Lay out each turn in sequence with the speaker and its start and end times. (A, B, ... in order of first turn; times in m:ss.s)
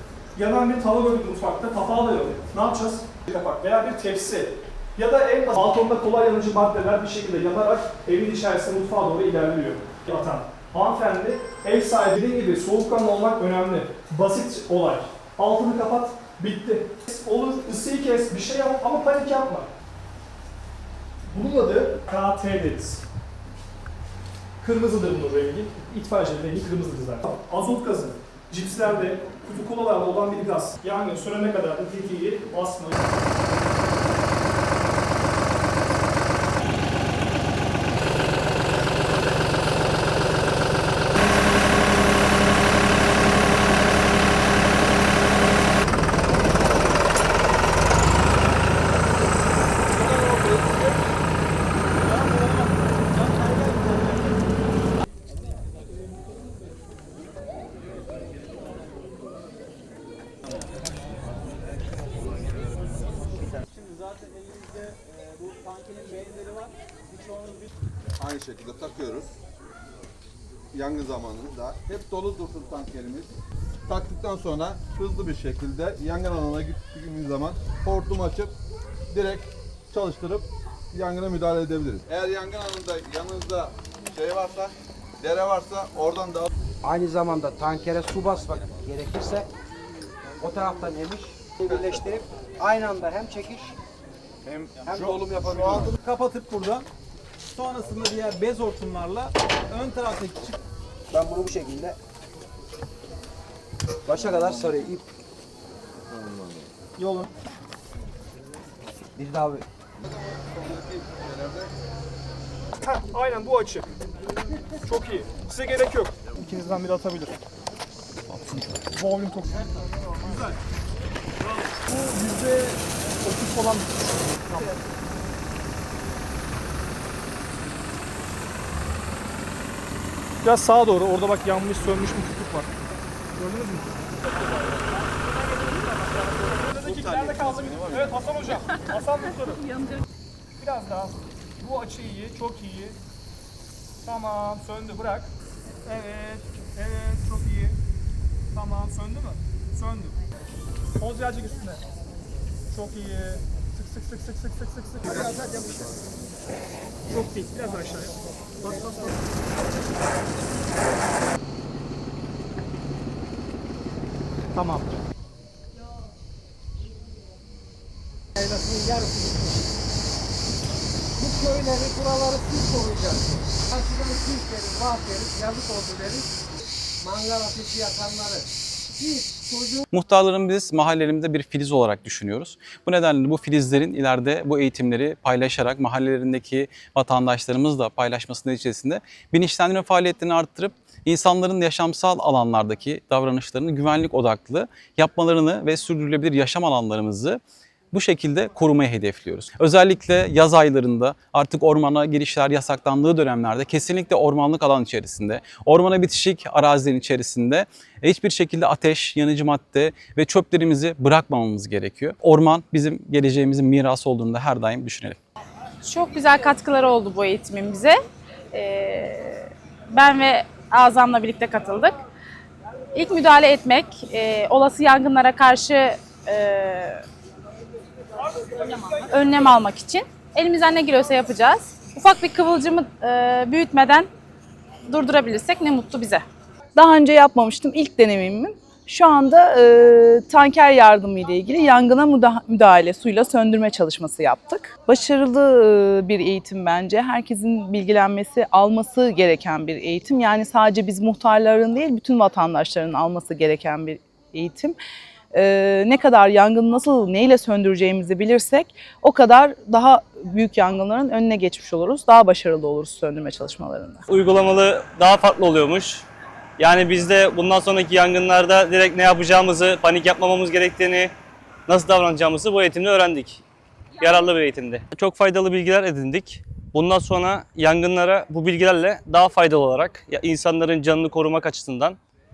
0:00.3-0:19.7 A
0:21.3-0:23.0 A
0:24.6-0:33.2 A
0:49.9-0:50.8 B
1:03.9-1:06.7 C
1:07.2-1:07.5 C
1:08.2-1:09.3 B
1:10.7-1:13.3 B
1:13.9-1:18.5 B
1:19.1-1:26.5 B
1:26.8-1:29.5 D
1:30.4-1:33.8 D
1:31.7-1:32.0 B
1:34.7-1:35.9 D
1:35.8-1:36.8 C
1:37.5-1:40.6 C
1:41.1-1:42.0 D
1:44.0-1:45.1 D
1:47.0-1:47.2 A
1:49.2-1:49.7 D
1:50.3-1:51.7 B
1:52.8-1:53.8 A
1:54.8-1:57.4 A
1:58.9-2:00.6 A
2:01.5-2:04.7 A
2:10.4-2:12.7 A
2:13.4-2:14.4 A
2:16.3-2:19.8 A
2:20.6-2:23.0 A
2:24.0-2:25.3 A
2:25.8-2:27.8 A
2:28.5-2:30.2 A
2:31.0-2:31.8 A
2:32.7-2:35.4 A
2:37.1-2:39.2 A
2:44.5-2:44.9 A
2:48.4-2:49.6 D
2:51.2-2:56.3 D
2:57.0-2:59.8 D
2:59.9-3:17.4 E
3:17.9-3:35.2 E
3:35.9-3:37.9 F
3:38.5-3:39.5 F
3:40.0-3:41.8 F
3:41.5-3:41.8 G
3:43.0-3:47.0 F
3:48.6-3:54.0 F
3:49.2-3:49.8 G
3:50.8-3:51.5 G
3:54.9-3:56.2 F
3:55.1-3:55.5 G
3:56.7-4:14.8 H
4:15.3-4:24.0 H
4:24.1-4:26.0 G
4:26.6-4:31.1 G
4:31.7-4:33.4 G
4:34.0-4:42.0 G